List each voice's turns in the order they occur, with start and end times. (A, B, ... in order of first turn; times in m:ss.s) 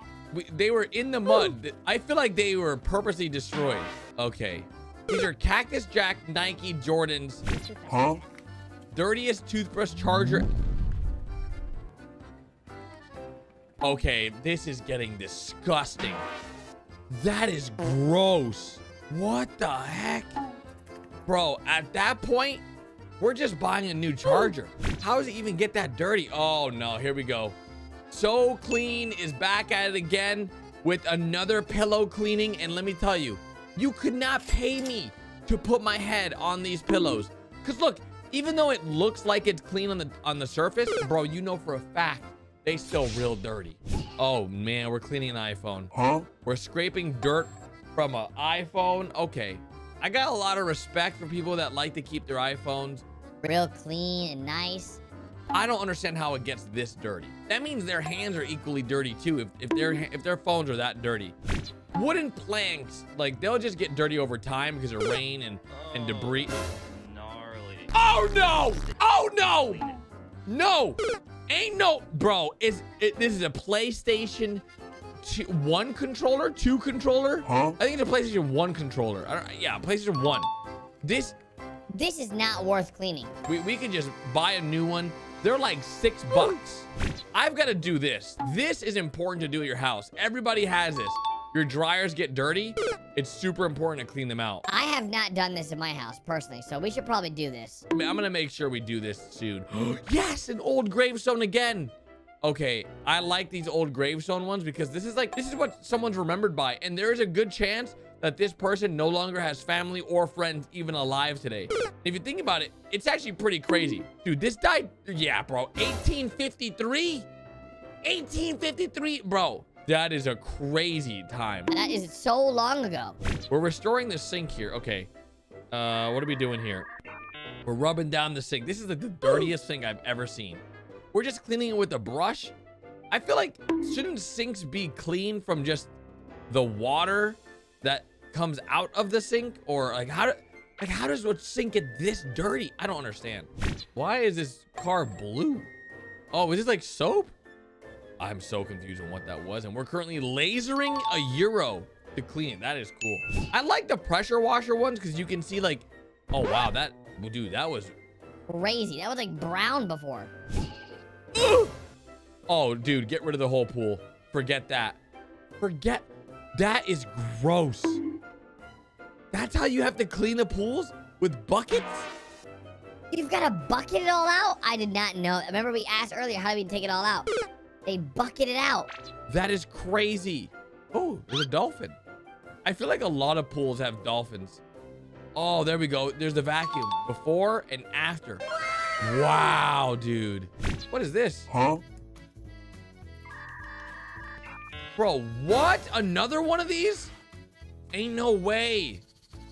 0:00.3-0:07.4 A
0:08.9-0:10.5 A
0:13.8-0:16.2 A
0:17.1-0:20.3 A
0:21.3-0:22.6 A
0:23.2-0:27.6 A
0:28.1-0:45.9 A
0:46.4-0:53.0 A
0:53.4-0:55.0 B
0:55.5-1:01.3 A
1:01.9-1:06.5 A
1:05.8-1:09.9 C
1:07.9-1:10.0 A
1:10.5-1:14.6 A
1:15.2-1:20.5 A
1:21.0-1:21.4 A
1:21.9-1:23.3 B
1:23.5-1:34.6 A
1:34.7-1:37.8 B
1:37.9-1:57.3 A
1:58.0-2:01.7 A
2:01.7-2:03.2 B
2:03.5-2:05.1 A
2:05.7-2:06.9 A
2:07.7-2:12.5 A
2:13.1-2:15.9 A
2:16.5-2:25.7 A
2:26.3-2:27.3 A
2:28.2-2:37.9 A
2:38.5-2:40.3 B
2:41.4-2:41.7 A
2:42.5-2:45.0 A
2:45.6-2:48.0 A
2:49.3-2:52.1 A
2:53.1-2:57.3 B
2:57.8-2:58.9 B
2:59.3-3:02.0 A
3:02.6-3:04.6 A
3:05.3-3:08.4 A
3:09.0-3:11.5 A
3:15.0-3:17.1 A
3:17.9-3:19.0 A